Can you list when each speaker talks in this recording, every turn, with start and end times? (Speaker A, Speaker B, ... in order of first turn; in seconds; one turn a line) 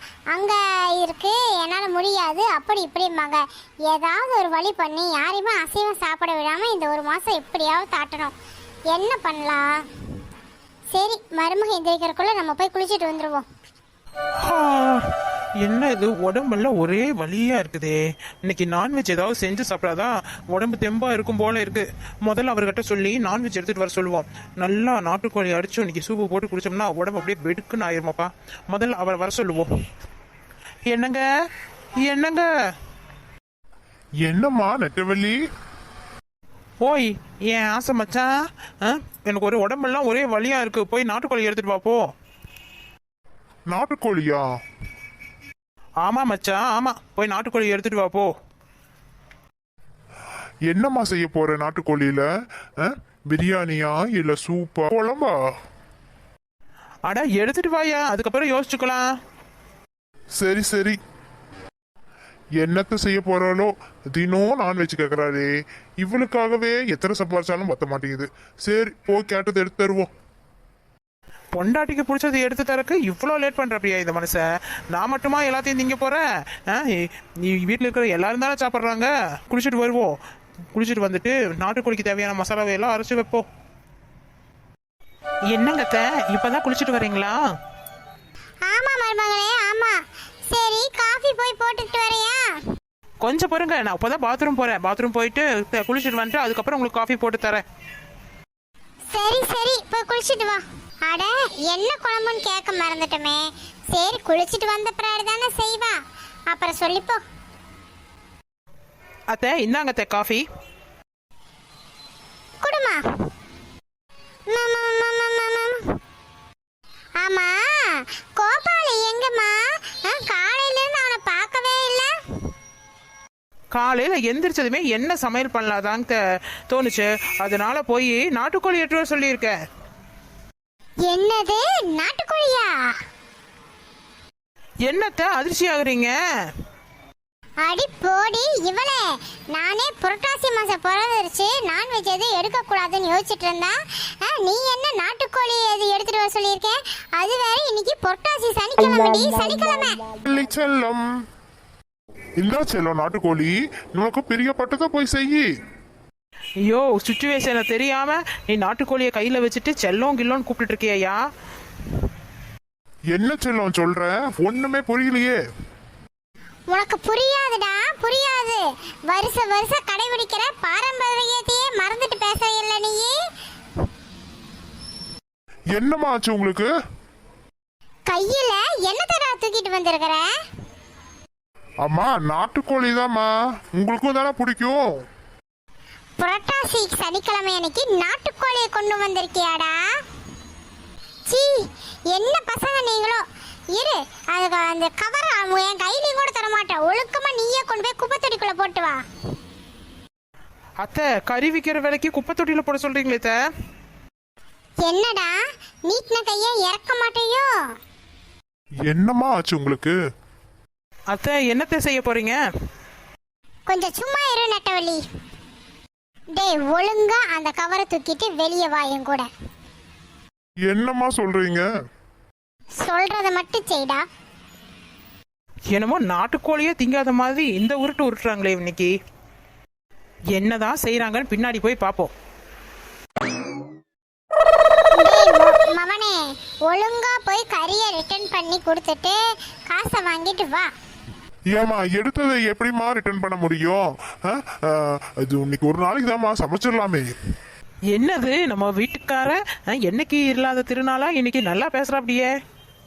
Speaker A: 0.3-8.3
Speaker A: 8.9-9.7
Speaker A: 10.9-13.4
Speaker B: 14.4-15.1
Speaker B: 15.6-29.7
Speaker B: 30.9-31.2
Speaker B: 32.0-32.5
Speaker C: 34.2-35.4
Speaker B: 36.8-38.3
Speaker B: 38.8-42.1
Speaker C: 43.7-44.5
Speaker B: 46.0-48.3
Speaker C: 50.7-52.2
Speaker C: 52.8-55.3
Speaker B: 57.0-59.1
Speaker C: 60.4-61.0
Speaker C: 62.6-70.1
Speaker B: 71.5-80.1
Speaker B: 80.7-83.5
Speaker B: 85.5-87.4
Speaker A: 88.7-90.0
Speaker A: 90.5-92.6
Speaker B: 93.2-97.6
Speaker A: 99.1-106.0
Speaker A: 106.5-107.2
Speaker B: 109.3-110.4
Speaker A: 112.6-113.0
Speaker A: 114.5-115.8
Speaker A: 117.2-122.1
Speaker B: 123.7-129.5
Speaker A: 131.1-132.7
Speaker B: 134.9-136.1
Speaker A: 137.6-139.0
Speaker A: 139.5-150.0
Speaker C: 150.2-151.0
Speaker C: 152.4-155.4
Speaker B: 156.7-161.2
Speaker C: 163.1-165.3
Speaker A: 166.7-173.2
Speaker C: 175.8-176.7
Speaker A: 178.1-180.3
Speaker C: 181.8-185.0
Speaker A: 186.2-189.8
Speaker A: 191.3-199.0
Speaker B: 200.8-203.4
Speaker A: 204.8-207.5
Speaker C: 208.9-209.9
Speaker B: 211.1-212.4
Speaker A: 213.7-215.0
Speaker A: 216.3-219.3
Speaker C: 220.7-221.6
Speaker A: 222.8-224.0
Speaker B: 225.7-228.9
Speaker B: 230.3-232.1
Speaker A: 234.9-240.7
Speaker C: 241.5-247.1
Speaker B: 247.9-252.3